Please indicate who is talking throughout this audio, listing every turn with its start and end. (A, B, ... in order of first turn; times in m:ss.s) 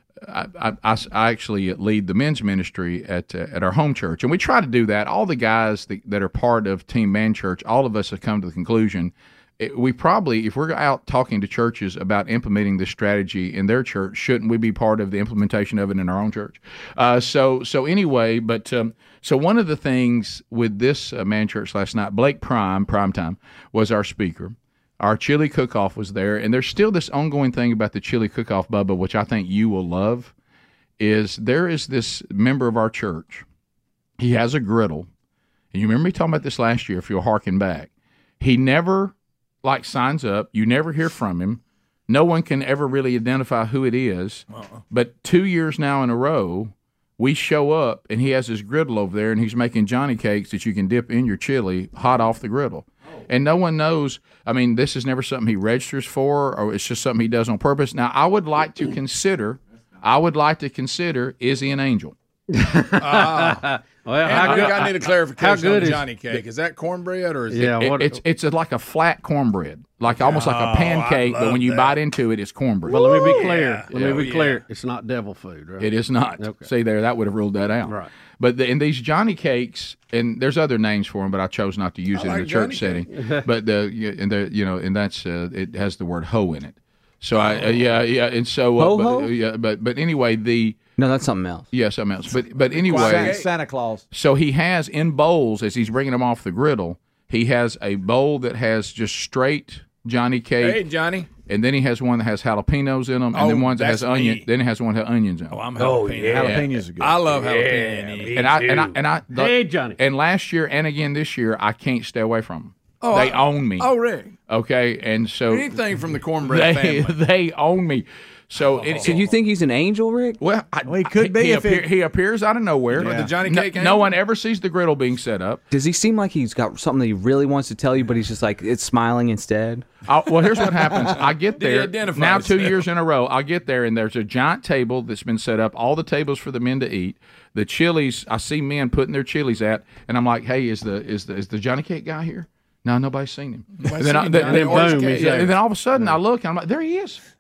0:00.2-0:30.3 A
0:31.0-0:33.4 A
0:34.2-0:35.1 A
0:35.7-1:02.1 A
0:44.5-0:44.8 B
1:02.5-1:06.4 C
1:03.0-1:03.6 B
1:04.2-1:07.7 B
1:04.3-1:04.9 A
1:07.5-1:08.2 C
1:07.6-1:13.2 A
1:10.1-1:12.0 B
1:12.9-1:16.7 C
1:12.9-1:14.6 B
1:13.9-1:14.2 A
1:15.8-1:30.8 A
1:17.8-1:18.1 C
1:22.1-1:23.1 B
1:23.1-1:23.4 C
1:28.8-1:29.3 D
1:31.0-1:31.6 D
1:31.7-1:33.4 A
1:32.8-1:33.5 B
1:32.8-1:34.0 E
1:34.1-1:40.8 A
1:40.6-1:41.3 B
1:41.4-1:45.6 A
1:43.3-1:44.4 B
1:45.5-1:48.5 B
1:45.8-1:46.3 D
1:46.2-1:47.3 E
1:46.4-1:46.7 A
1:47.5-1:50.0 C
1:48.3-1:53.9 A
1:53.0-1:54.3 B
1:54.5-1:55.8 A
1:55.5-1:57.2 B
1:56.4-1:59.3 A
1:58.8-1:59.2 B
1:59.0-2:00.4 D
2:00.4-2:05.6 A
2:00.8-2:01.9 E
2:02.9-2:03.3 E
2:02.9-2:04.1 B
2:05.7-2:09.9 D
2:10.0-2:27.2 A
2:11.6-2:12.8 B
2:23.8-2:25.5 B
2:24.4-2:26.0 C